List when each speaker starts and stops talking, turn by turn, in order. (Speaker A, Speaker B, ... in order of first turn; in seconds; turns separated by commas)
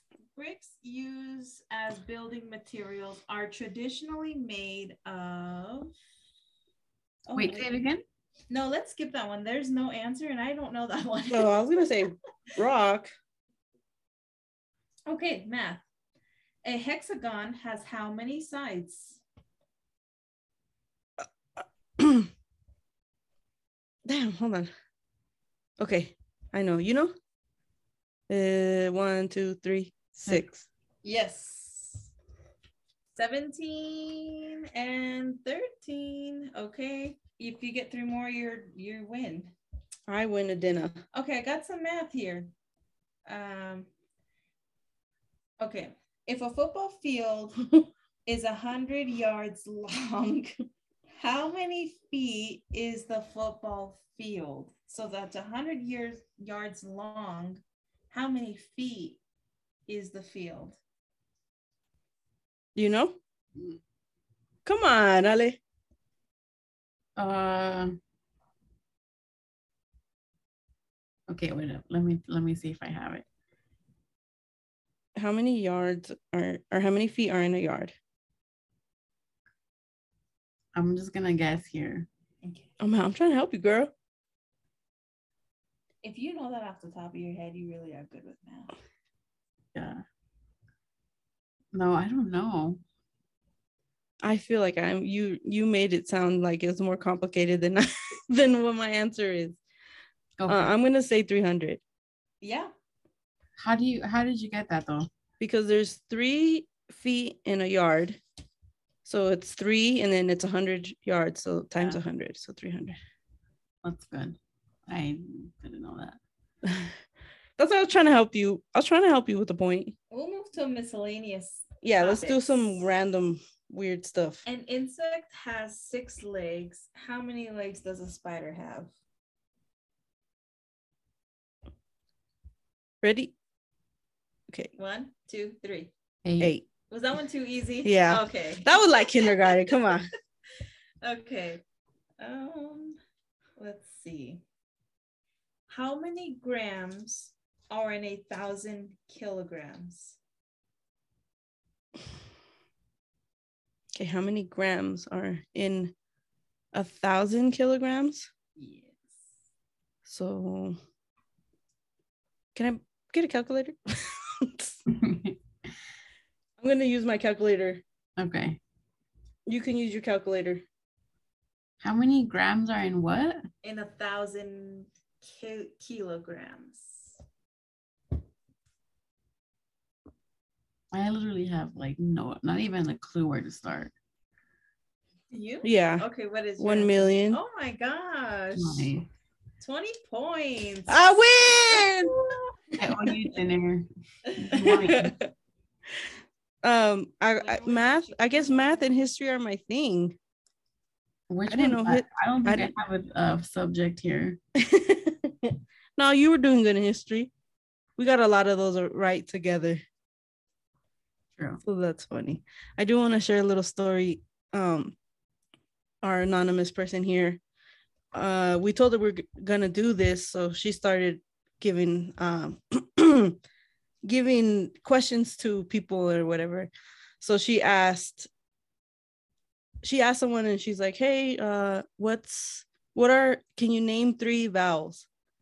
Speaker A: 0.3-5.9, Speaker A: 7.2-7.7, Speaker B: 7.3-8.0, Speaker A: 8.5-11.6, Speaker C: 11.3-13.1, Speaker A: 15.1-15.8, Speaker A: 16.6-19.2, Speaker C: 22.0-22.3, Speaker C: 24.1-24.7, Speaker C: 25.8-27.1, Speaker C: 28.3-30.6, Speaker A: 31.0-32.1, Speaker A: 33.1-39.5, Speaker C: 40.1-41.0, Speaker A: 41.1-42.5, Speaker A: 43.2-43.9, Speaker A: 45.6-47.7, Speaker A: 48.2-50.5, Speaker A: 51.2-59.2, Speaker A: 59.9-60.8, Speaker C: 62.7-63.2, Speaker C: 64.6-65.6, Speaker B: 67.2-68.0, Speaker B: 71.3-73.2, Speaker C: 75.2-77.9, Speaker B: 80.7-82.1, Speaker A: 82.4-82.7, Speaker C: 82.8-83.9, Speaker A: 86.0-88.7, Speaker B: 89.7-90.0, Speaker B: 91.7-92.8, Speaker C: 94.2-99.6, Speaker B: 100.4-100.7, Speaker C: 100.5-101.8, Speaker A: 102.4-102.7, Speaker B: 103.6-105.1, Speaker C: 105.4-108.2, Speaker C: 109.0-112.9, Speaker B: 113.8-116.2, Speaker C: 116.6-116.9, Speaker C: 117.6-119.9, Speaker A: 120.1-122.8, Speaker C: 121.8-124.4, Speaker A: 124.5-128.9, Speaker C: 133.0-133.3, Speaker A: 134.8-135.9, Speaker B: 136.2-136.6, Speaker A: 136.9-140.0, Speaker C: 137.8-140.1, Speaker A: 141.0-141.6, Speaker A: 142.2-143.0, Speaker A: 143.6-144.4, Speaker A: 145.7-150.2, Speaker C: 153.9-155.9, Speaker C: 156.7-158.3, Speaker A: 158.6-159.2, Speaker C: 160.1-160.8, Speaker C: 162.5-164.8, Speaker B: 164.9-165.4, Speaker C: 166.6-167.8, Speaker B: 168.2-168.6, Speaker C: 169.4-170.6, Speaker B: 171.8-173.5, Speaker A: 173.6-177.2, Speaker B: 180.9-183.9, Speaker A: 185.3-188.9, Speaker C: 185.6-186.1, Speaker C: 186.6-187.4, Speaker B: 188.5-189.1, Speaker A: 189.6-192.1, Speaker C: 190.9-192.2, Speaker B: 192.8-195.1, Speaker C: 194.5-195.3, Speaker C: 196.6-200.2, Speaker A: 197.4-198.9, Speaker B: 201.3-204.4, Speaker C: 201.5-202.7, Speaker C: 204.6-207.3, Speaker C: 208.0-209.8, Speaker C: 211.6-214.9, Speaker C: 216.0-217.4, Speaker C: 218.1-223.4, Speaker C: 224.0-228.3, Speaker C: 229.8-235.1